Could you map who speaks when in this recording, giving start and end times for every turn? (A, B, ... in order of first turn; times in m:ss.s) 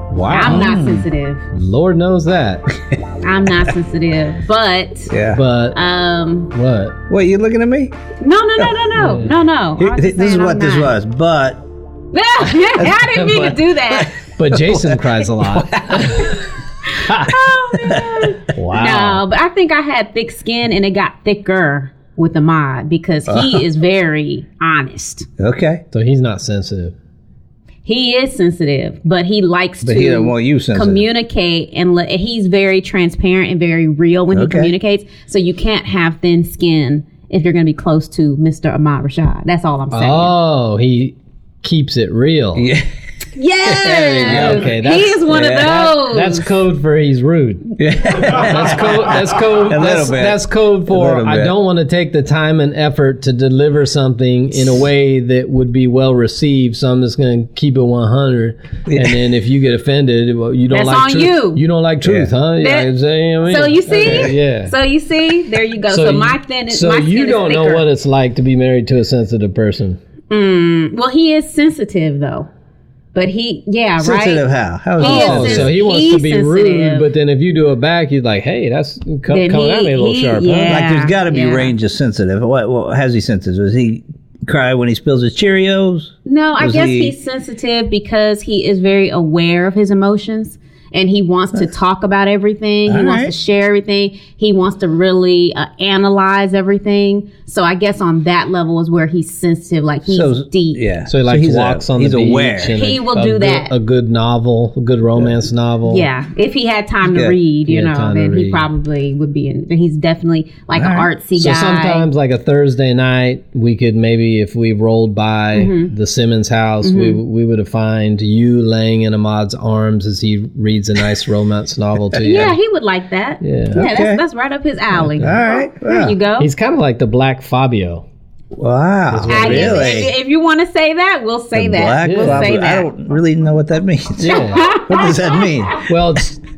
0:00.1-0:00.7 A
0:00.3-0:01.4 B
0:00.5-0:01.1 C
0:01.5-0:02.6 A
0:03.2-0:05.1 B
0:05.1-0:05.4 C
0:05.3-0:05.8 A
0:05.7-0:06.5 B
0:06.5-0:07.0 A
0:07.1-0:07.9 C
0:08.2-0:10.9 B
0:09.0-0:09.3 A
0:09.8-0:11.6 C
0:12.1-0:14.1 B
0:12.8-0:16.4 C
0:13.1-0:13.5 A
0:14.2-0:16.4 A
0:16.9-0:25.3 B
0:17.0-0:17.3 A
0:17.8-0:18.4 C
0:18.5-0:19.2 A
0:23.3-0:23.6 C
0:25.4-0:25.8 C
0:25.9-0:27.0 A
0:27.8-0:40.3 B
0:29.8-0:31.1 C
0:34.3-0:34.7 C
0:39.9-0:42.7 A
0:42.6-0:42.9 C
0:43.4-0:46.5 B
0:43.6-1:04.7 A
0:43.8-0:44.8 C
0:45.3-0:45.9 C
0:47.8-0:51.6 C
0:58.9-0:59.2 C
1:00.7-1:01.6 B
1:02.0-1:02.3 C
1:02.6-1:02.9 B
1:03.4-1:07.9 B
1:05.9-1:10.0 A
1:10.3-1:12.5 B
1:13.2-1:14.5 B
1:14.0-1:15.7 C
1:15.0-1:17.1 B
1:15.0-1:20.8 A
1:19.3-1:21.7 B
1:20.7-1:27.1 C
1:26.3-1:40.8 B
1:32.9-1:33.4 C
1:40.1-1:42.8 C
1:41.1-1:46.1 A
1:42.8-1:43.7 B
1:45.9-1:52.1 B
1:47.1-1:47.4 C
1:47.7-1:48.7 A
1:50.8-1:51.1 C
1:51.4-2:02.6 A
1:55.6-1:55.9 B
1:56.8-1:57.2 B
2:02.2-2:06.5 B
2:03.4-2:03.8 A
2:03.7-2:04.2 C
2:04.9-2:05.4 A
2:05.2-2:06.2 C
2:06.4-2:08.1 A
2:08.5-2:10.1 C
2:09.1-2:10.1 A
2:09.3-2:12.9 B
2:11.5-2:15.9 C
2:12.0-2:12.5 A
2:14.2-2:14.8 A
2:14.4-2:15.6 B
2:15.8-2:16.4 A